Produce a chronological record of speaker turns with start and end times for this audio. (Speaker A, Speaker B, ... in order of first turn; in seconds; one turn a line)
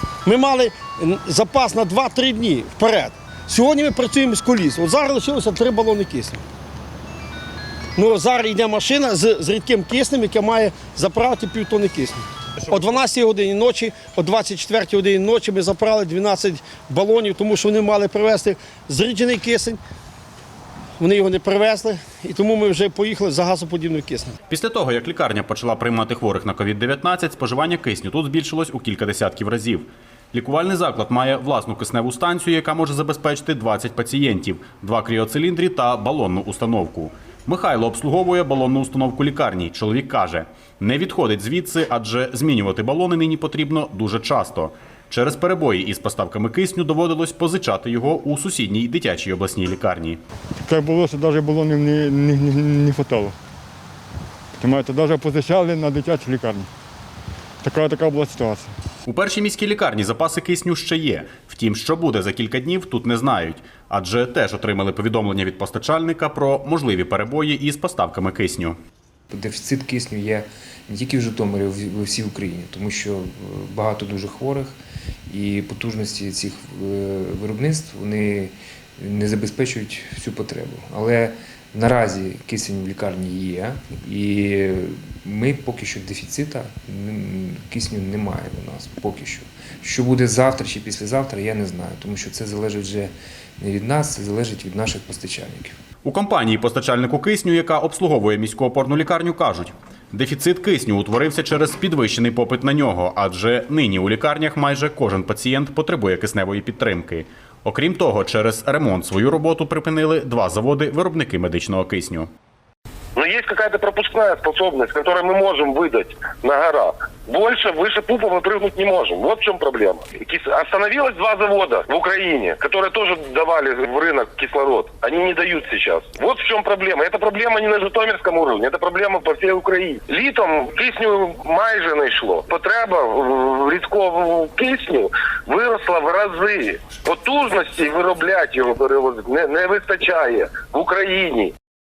Speaker A: 0.2-6.4
Speaker A: 8.0-19.8
Speaker A: 21.0-24.3
Speaker B: 24.5-50.2
Speaker C: 50.6-53.4
Speaker C: 54.6-56.7
Speaker C: 57.6-58.7
Speaker B: 59.0-68.8
Speaker D: 69.3-74.8
Speaker D: 75.3-95.7
Speaker B: 96.0-112.3
Speaker E: 113.2-141.5